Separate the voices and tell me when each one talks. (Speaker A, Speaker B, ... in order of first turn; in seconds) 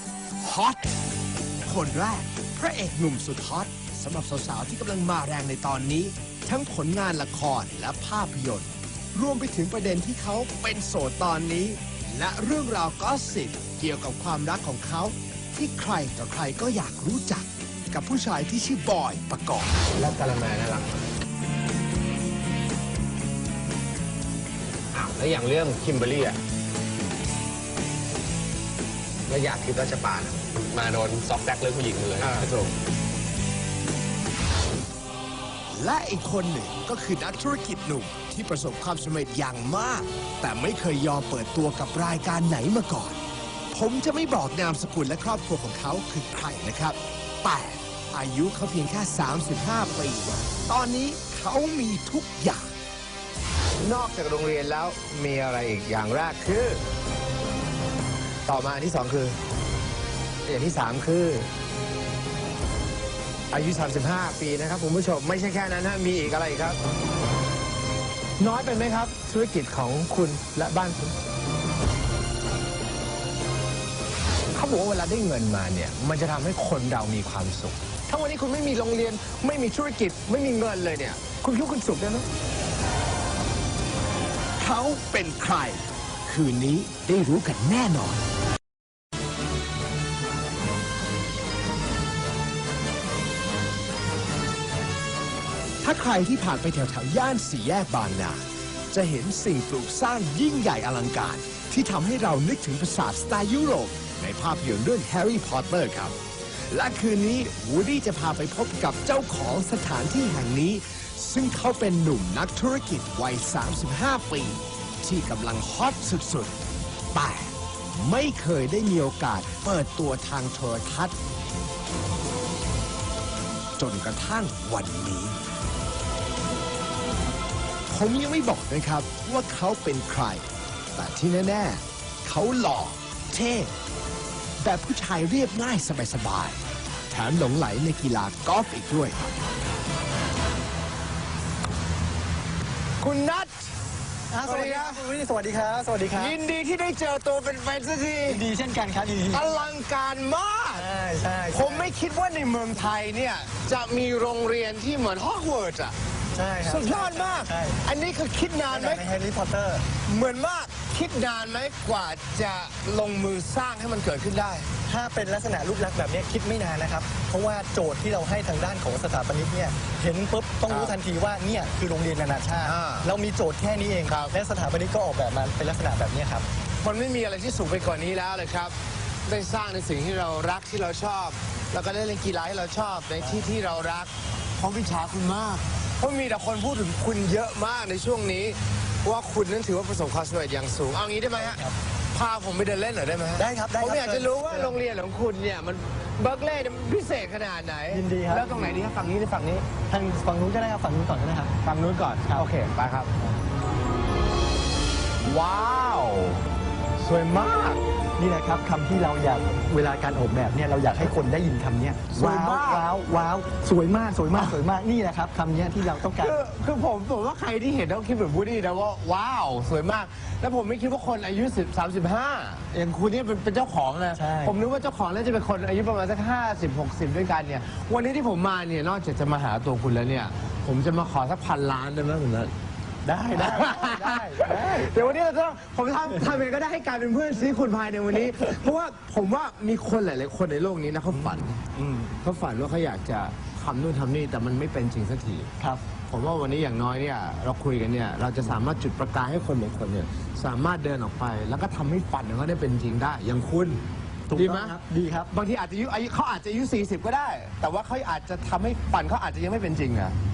Speaker A: 0.4-0.9, 1.6-19.8, 32.2-32.5, 35.7-43.2, 43.7-52.7, 84.6-88.2, 95.8-116.5, 117.1-121.2, 123.8-125.4, 127.9-130.4, 130.9-133.7, 134.6-136.6, 137.1-139.2
Speaker B: 20.0-21.0, 24.9-26.4, 29.3-32.7, 53.8-56.8, 58.5-59.4, 60.5-61.5, 63.5-66.8, 68.4-71.1, 74.5-82.2, 143.0-143.7, 144.4-145.1, 146.1-148.4, 149.3-150.9, 151.5-155.9, 156.6-159.0, 160.0-164.7, 170.7-171.0, 172.6-173.1, 174.1-174.3, 176.8-178.8, 179.3-191.6, 192.1-199.7, 201.6-203.1, 205.2-206.4, 207.0-207.8, 212.1-212.9, 215.9-232.5, 233.3-241.5, 242.2-245.5, 246.1-253.8, 254.3-254.8, 255.3-260.1
Speaker C: 144.3-146.4, 148.2-149.7, 150.7-151.9, 156.3-157.8, 158.7-159.8, 164.8-176.4, 183.2-183.5, 191.3-191.8, 193.4-194.8, 197.9-198.8, 199.8-201.5, 208.2-216.4, 224.1-224.6, 233.0-235.1, 241.1-242.2, 245.6-245.8, 254.3-255.3